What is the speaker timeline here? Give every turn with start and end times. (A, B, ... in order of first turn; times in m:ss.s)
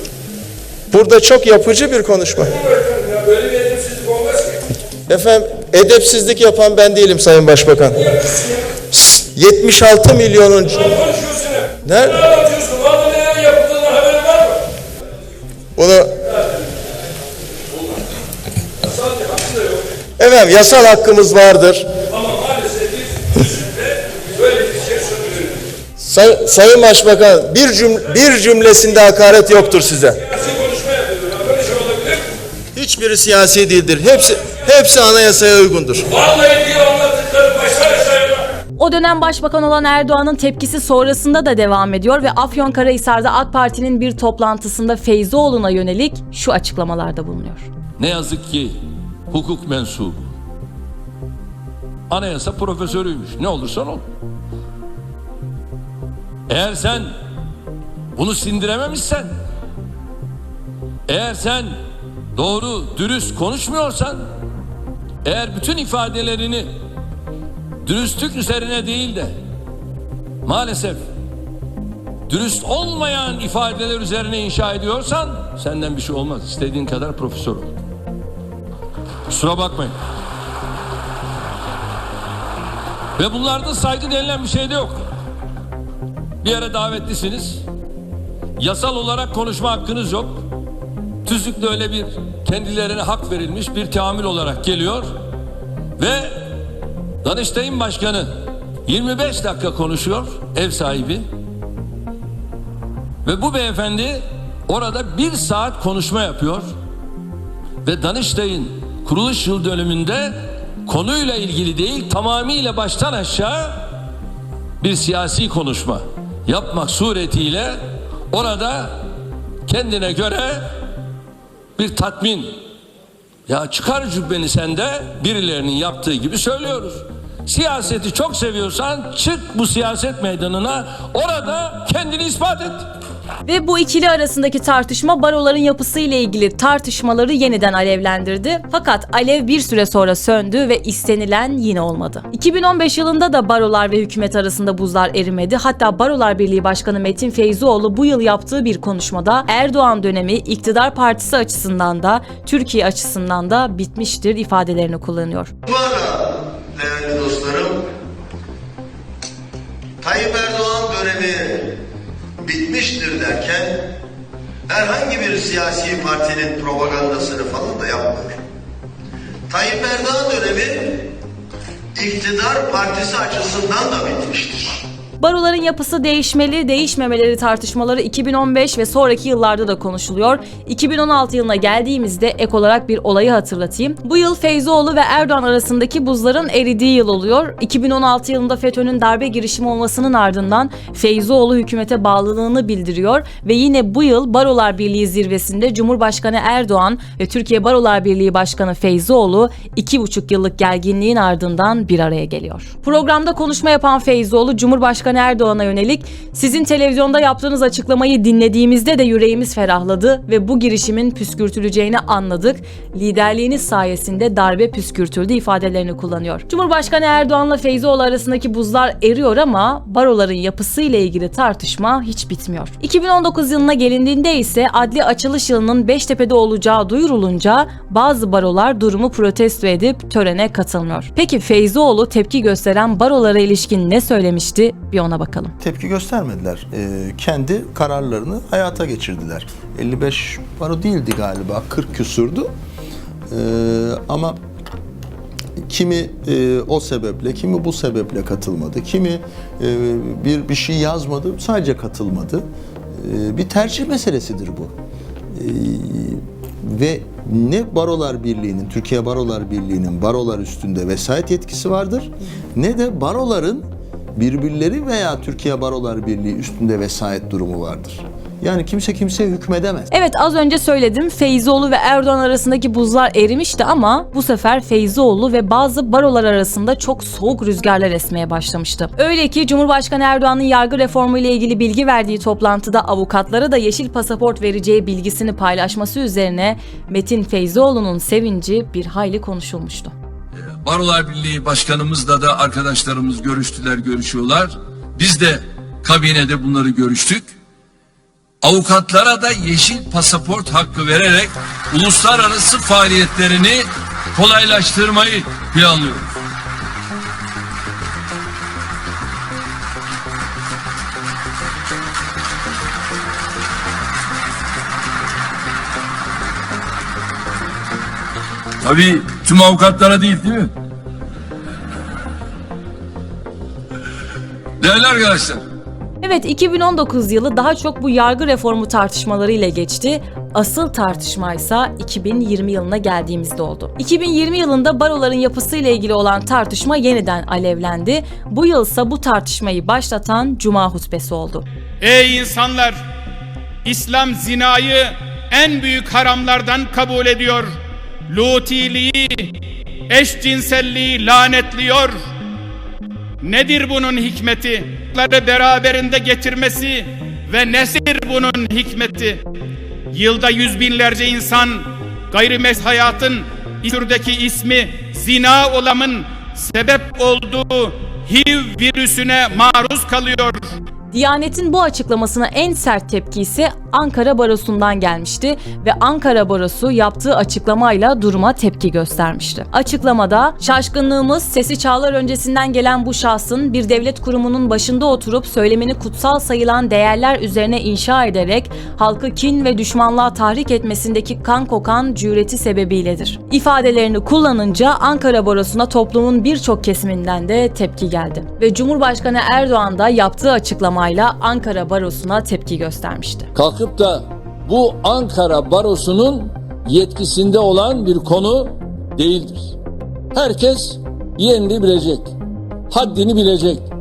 0:00.9-0:02.6 A
0:05.1-0:08.2 A
0:08.9-0:11.2 A
0:11.8-0:12.5 A
0:13.0-0:14.2 B
0:15.8-0:16.2 A
0:20.2-0:21.9 A
0:26.0-0:30.2 A
0:32.7-0:36.1 A
0:36.2-0:38.3 B
0:38.8-0:47.7 C
0:48.0-0:50.3 B
0:52.1-0:54.0 B
0:56.5-0:57.1 B
0:58.1-0:59.3 B
1:01.1-1:01.8 B
1:02.3-1:04.3 B
1:05.2-1:06.7 B
1:07.8-1:09.3 B
1:10.4-1:11.0 B
1:12.3-1:17.8 B
1:19.3-1:19.9 B
1:23.2-1:25.0 B
1:26.4-1:27.6 B
1:28.6-1:30.4 B
1:31.2-1:35.1 B
1:36.0-1:36.4 B
1:37.2-1:38.3 B
1:38.8-1:41.2 B
1:43.2-1:46.7 B
1:47.8-1:53.9 B
1:54.8-1:59.0 B
1:59.6-2:00.7 B
2:01.8-2:02.5 B
2:03.5-2:12.8 B
2:13.4-2:35.5 C
2:35.6-2:37.8 D
2:40.0-2:41.6 D
2:42.4-2:43.7 D
2:44.7-2:48.3 D
2:49.5-2:51.0 D
2:51.9-2:54.8 D
2:55.2-3:55.5 C
3:55.6-4:02.5 E
4:03.3-4:04.4 E
4:05.6-4:14.7 E
4:15.3-4:29.9 E
4:29.9-4:49.9 C
4:50.6-4:57.3 B
4:58.4-5:06.1 B
5:18.6-5:20.5 B
5:24.6-5:25.4 B
5:26.0-5:41.5 C
5:41.8-5:42.8 F
5:43.6-5:47.6 F
5:48.1-5:49.3 F
5:49.9-5:52.0 F
5:53.2-5:59.2 F
5:59.9-6:10.5 F
6:10.9-6:43.3 C
6:43.3-6:49.6 B
6:50.1-6:52.1 B
6:52.7-6:53.7 B